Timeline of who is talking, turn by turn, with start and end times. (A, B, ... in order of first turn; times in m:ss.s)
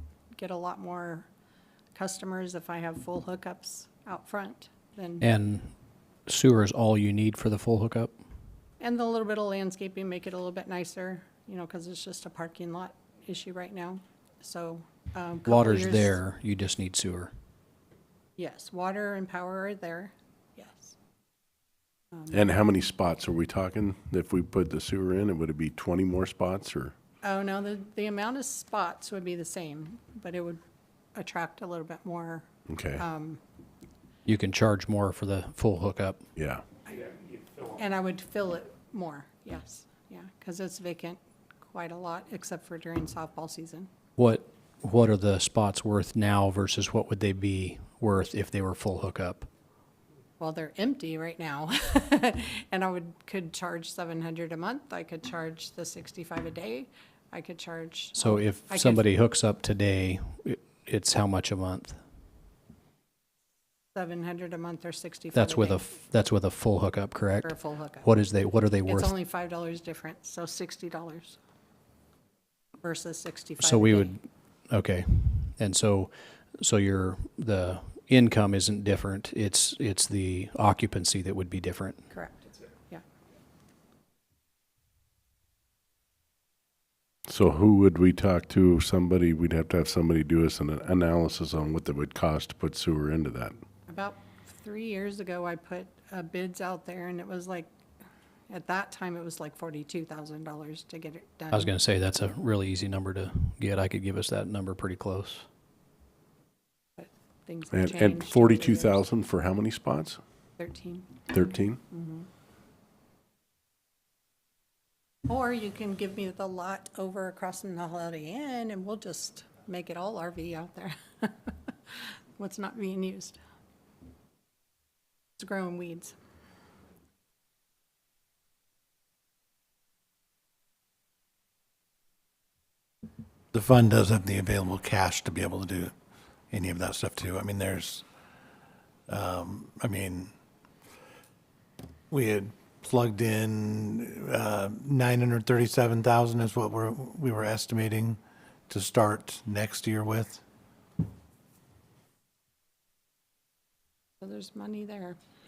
0:00.4-0:01.3 A
0:02.0-0:05.3 A
0:05.2-0:05.7 B
0:06.3-0:08.2 B
0:08.8-0:16.2 A
0:15.4-0:17.3 B
0:18.4-0:21.0 A
0:22.3-0:26.9 C
0:27.2-0:30.6 A
0:31.2-0:33.4 A
0:32.7-0:33.0 C
0:34.3-0:36.2 B
0:36.4-0:36.6 C
0:36.9-0:43.9 A
0:44.2-0:49.5 B
0:50.4-0:59.1 A
0:58.2-1:02.0 B
1:04.0-1:06.0 A
1:05.3-1:09.1 B
1:07.4-1:08.1 A
1:08.8-1:11.4 A
1:12.8-1:14.2 A
1:13.6-1:22.1 B
1:22.1-1:23.0 A
1:27.3-1:33.6 C
1:33.9-1:37.7 A
1:38.5-1:41.7 A
1:41.5-1:45.5 B
1:47.0-1:49.0 A
1:47.7-1:50.2 C
1:50.6-1:51.3 A
1:51.3-1:51.8 C
1:51.9-1:52.3 A
1:55.3-2:03.4 A
2:05.4-2:06.2 A
2:13.5-2:15.9 D
2:16.5-2:18.0 D
2:19.1-2:20.3 D
2:22.1-2:30.4 D
2:34.2-2:35.2 A